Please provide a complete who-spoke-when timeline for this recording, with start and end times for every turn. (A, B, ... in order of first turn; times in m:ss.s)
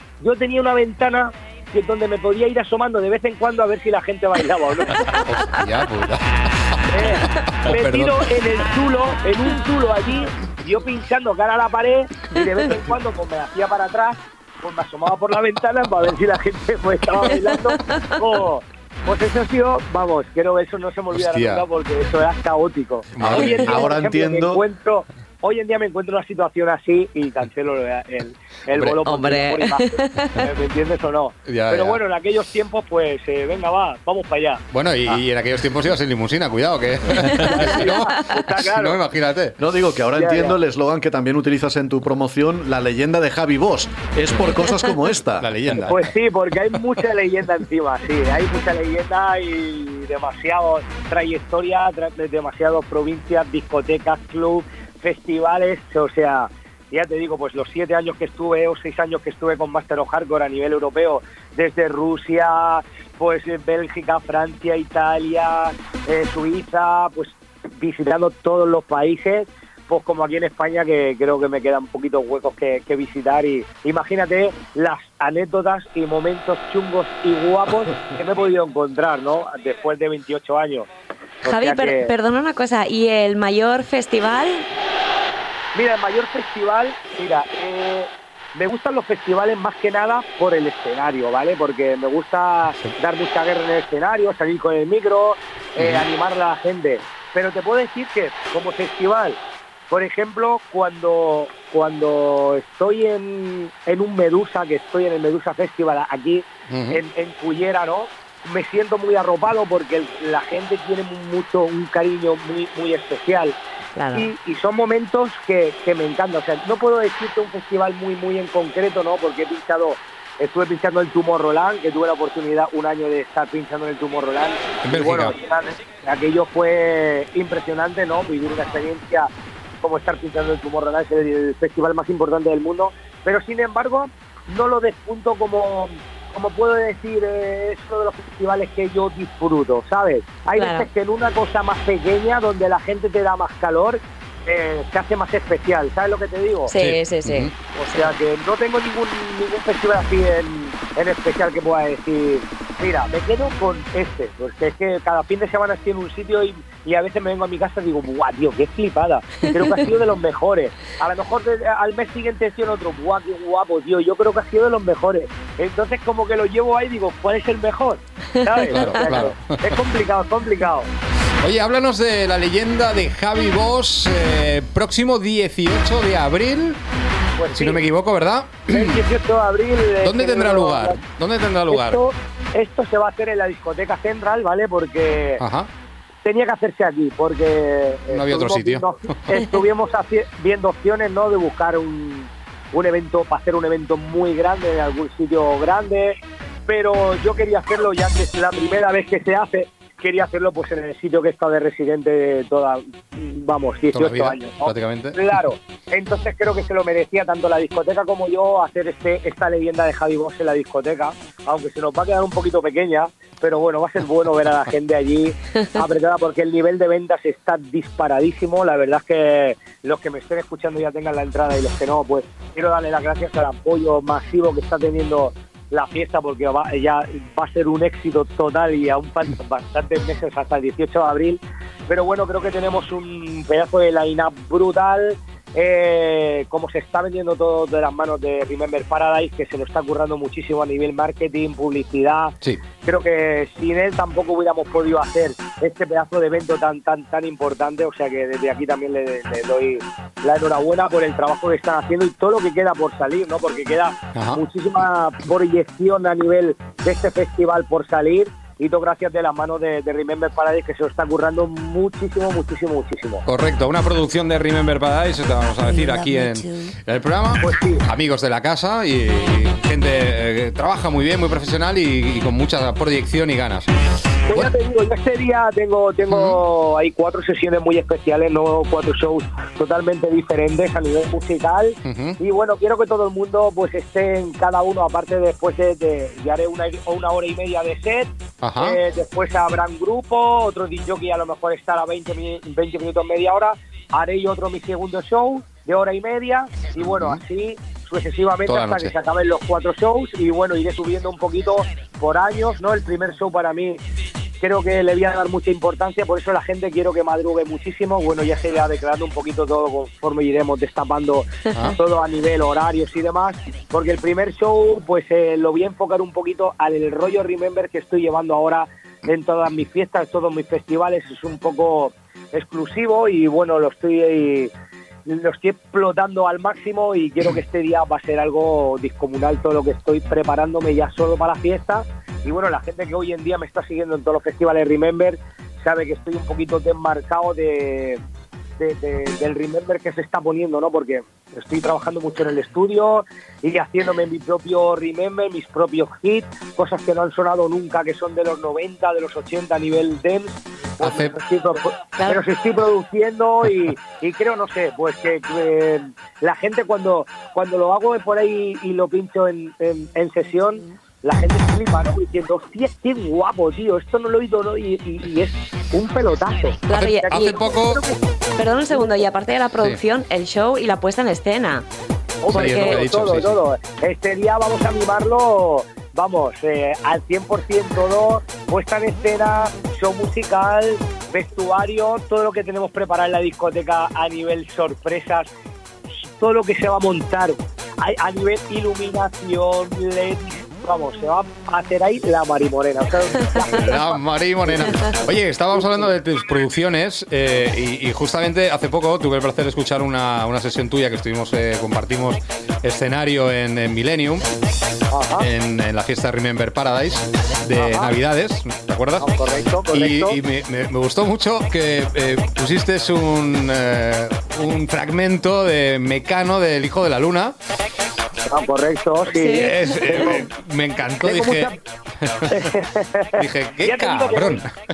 0:00.2-0:05.1 A
0:05.1-0:08.2 B
0:06.9-0:34.6 A
0:21.1-0:21.6 B
0:23.2-0:23.8 B
0:23.2-0:24.6 C
0:28.7-0:29.0 B
0:29.0-0:30.3 D
0:31.5-0:32.0 B
0:34.7-0:39.6 B
0:37.5-0:39.0 A
0:39.6-0:45.5 C
0:40.2-0:40.6 A
0:45.4-0:46.1 B
0:45.8-1:20.9 A
1:21.4-1:22.1 A
1:21.4-1:24.6 D
1:25.7-1:39.4 A
1:35.8-1:36.0 B
1:39.9-1:53.6 A
1:46.7-1:47.0 B
1:54.0-1:54.3 D
1:54.1-2:09.3 A
2:04.8-2:05.3 B
2:09.8-2:26.7 A
2:20.6-2:20.9 D
2:26.7-2:28.1 D
2:26.8-2:27.5 B
2:27.8-2:50.9 A
2:48.6-2:49.7 B
2:51.4-2:56.8 B
2:57.4-2:57.8 A
2:57.5-2:59.0 B
2:58.7-3:01.0 A
3:00.0-3:02.0 B
3:01.7-3:05.4 A
3:05.4-3:05.7 B
3:06.2-4:23.2 A
3:08.1-3:09.4 B
3:23.9-3:25.2 B
4:14.1-4:14.4 B
4:23.2-4:33.7 B
4:27.4-4:27.8 A
4:34.3-5:03.8 A
4:36.1-4:36.4 B
4:41.8-4:42.2 B
4:48.4-4:48.8 B
4:56.8-4:57.2 B
4:58.5-4:58.9 B
5:04.4-5:24.5 A
5:25.0-5:38.0 A
5:38.6-6:08.0 A
5:50.8-5:51.1 B
6:06.7-6:07.4 D
6:06.7-6:07.8 B
6:08.4-6:11.6 D
6:08.7-6:09.0 A
6:12.2-6:25.3 A
6:12.3-6:13.3 B
6:12.3-6:12.8 D
6:25.9-6:33.8 A
6:33.5-6:44.2 B
6:44.9-6:45.3 A
6:45.2-6:49.2 B
6:47.6-6:47.9 A
6:49.0-6:50.2 A
6:49.7-6:57.3 B
6:58.3-7:00.3 A
6:59.1-6:59.8 D
6:59.3-7:01.5 B
7:01.0-7:01.6 A
7:02.1-7:02.4 B
7:02.3-7:04.4 A
7:03.2-7:04.5 B